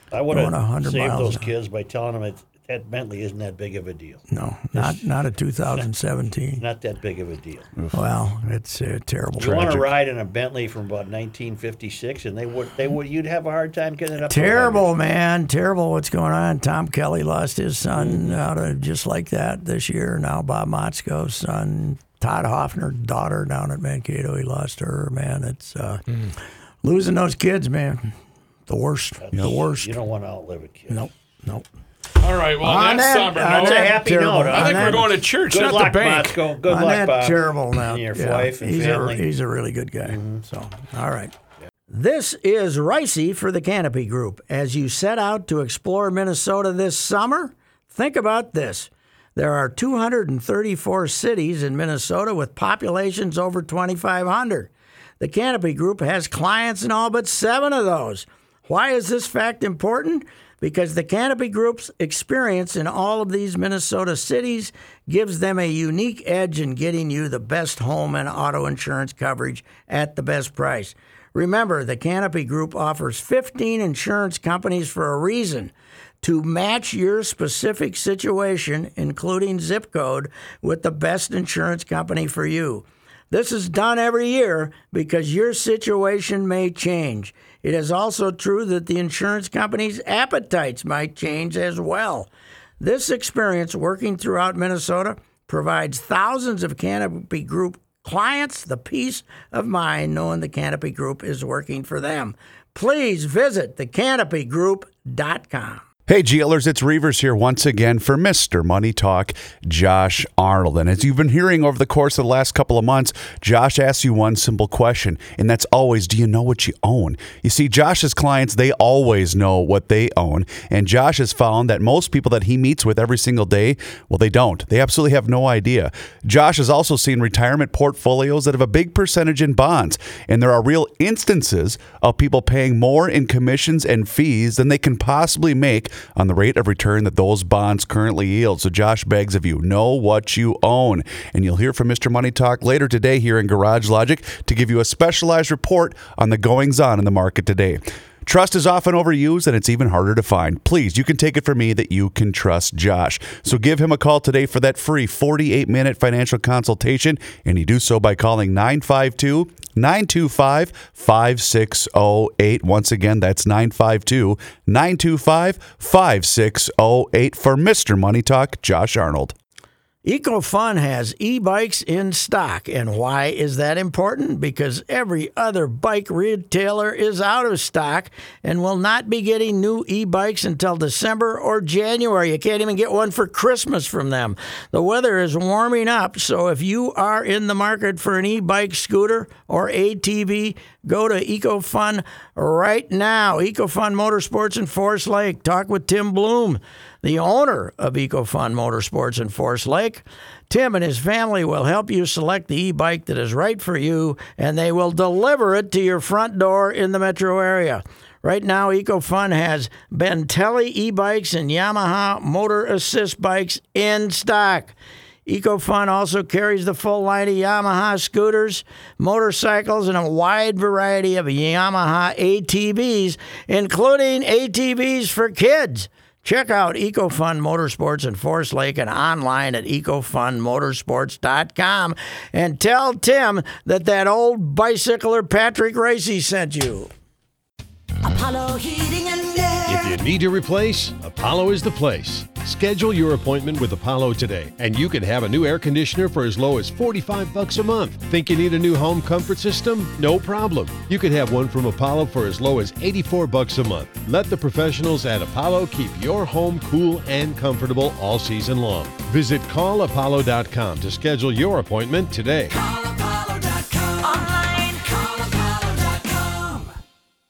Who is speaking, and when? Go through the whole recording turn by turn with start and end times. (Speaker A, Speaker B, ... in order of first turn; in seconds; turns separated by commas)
Speaker A: 0.1-5.0, Speaker B: 0.3-1.5, Speaker B: 4.3-6.6, Speaker A: 6.6-7.7, Speaker B: 7.9-9.9, Speaker A: 9.4-14.9, Speaker B: 14.3-26.0, Speaker A: 18.0-18.3, Speaker B: 26.8-28.1, Speaker B: 28.7-29.9, Speaker A: 29.2-31.0, Speaker B: 30.9-31.6, Speaker C: 32.2-34.0, Speaker B: 32.6-35.2, Speaker A: 33.4-39.3, Speaker C: 34.5-36.5, Speaker B: 36.7-41.3, Speaker A: 40.0-40.4, Speaker B: 41.9-92.3, Speaker B: 92.8-105.8, Speaker D: 106.1-169.3, Speaker B: 170.0-214.7, Speaker B: 215.2-236.9, Speaker E: 238.0-240.0, Speaker F: 239.7-262.5, Speaker E: 262.5-266.7